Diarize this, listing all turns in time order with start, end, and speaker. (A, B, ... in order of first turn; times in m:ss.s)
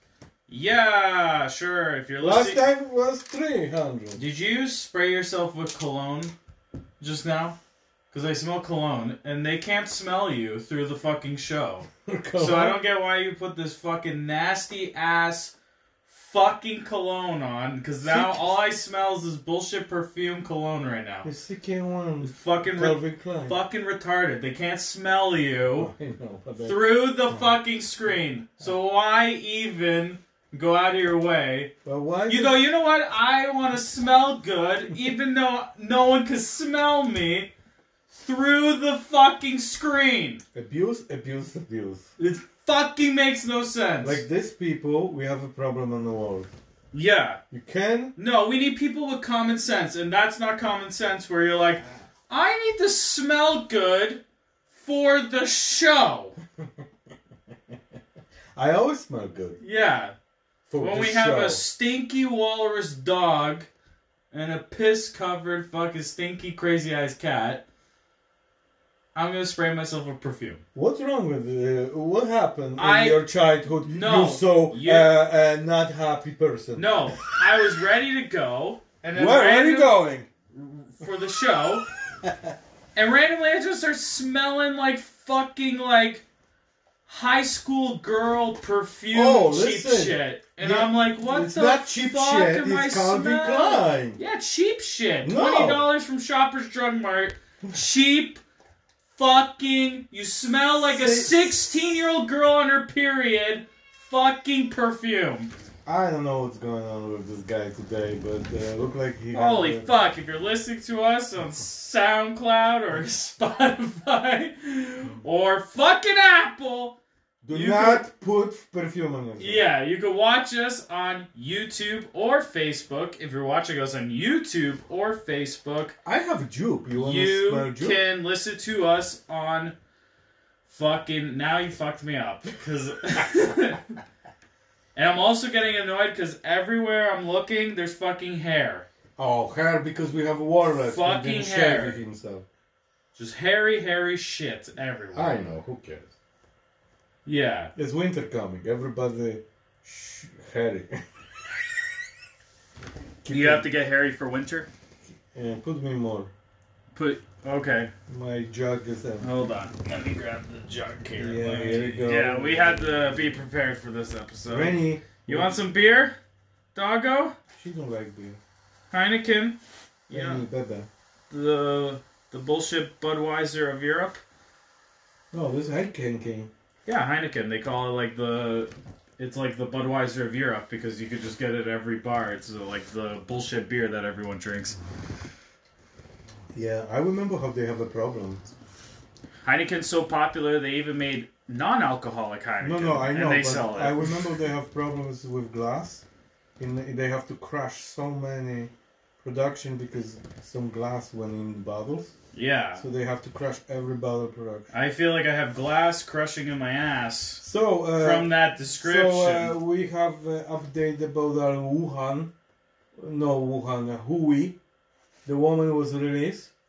0:00.5-0:02.6 A
0:02.2-0:04.2 B
0:04.2-0:06.3 A
0:07.0-0:07.6 A
0:08.1-0:15.5 A
0:12.0-0:12.8 B
0:16.1-0:21.3 A
0:18.0-0:18.5 B
0:21.2-0:23.6 B
0:22.2-0:25.9 A
0:25.8-0:27.5 B
0:26.6-0:31.7 A
0:31.8-0:32.6 B
0:32.3-0:37.5 A
0:38.1-0:40.4 A
0:40.5-0:42.1 B
0:42.2-0:44.2 A
0:44.0-0:46.5 B
0:46.9-0:47.4 A
0:47.5-0:48.1 B
0:48.2-0:56.4 A
0:58.5-0:59.6 B
0:59.6-1:00.1 A
1:00.7-1:01.6 B
1:00.8-1:03.7 A
1:04.3-1:07.6 A
1:09.1-1:10.6 A
1:10.7-1:16.9 B
1:12.8-1:13.2 A
1:13.8-1:15.1 A
1:16.7-1:20.0 A
1:19.1-1:20.3 B
1:20.5-1:21.8 A
1:22.2-1:22.5 B
1:23.0-1:26.2 A
1:27.1-1:38.4 A
1:29.1-1:34.2 B
1:35.2-1:35.8 B
1:39.1-1:45.5 A
1:40.9-1:41.7 B
1:45.8-1:49.9 B
1:49.3-1:57.0 A
1:57.4-1:59.6 B
1:57.5-1:58.0 A
1:59.4-2:06.0 A
2:06.0-2:08.0 B
2:07.0-2:09.7 A
2:10.7-2:13.9 A
2:14.9-2:18.8 A
2:19.2-2:22.4 B
2:20.8-2:22.0 A
2:23.1-2:25.5 A
2:25.1-2:26.1 B
2:27.2-2:27.7 A
2:27.7-2:31.0 B
2:33.2-2:33.7 B
2:33.3-2:34.7 A
2:35.2-2:36.3 B
2:36.9-2:37.9 A
2:38.1-2:39.3 B
2:39.2-2:46.1 A
2:41.2-2:43.3 B
2:44.5-2:45.5 B
2:46.7-2:47.3 A
2:47.5-2:48.4 B
2:48.9-2:49.6 A
2:50.1-2:50.4 A
2:50.1-2:50.9 B
2:51.3-2:54.2 A
2:55.3-2:56.5 B
2:56.8-3:04.8 A
3:06.5-3:08.5 B
3:09.4-3:14.2 A
3:12.6-3:16.0 B
3:16.6-3:22.1 B
3:22.3-3:22.8 A
3:22.8-3:24.7 B
3:24.7-3:27.4 A
3:27.4-3:32.3 B
3:28.0-3:29.6 A
3:33.0-3:34.6 B
3:35.2-3:36.5 B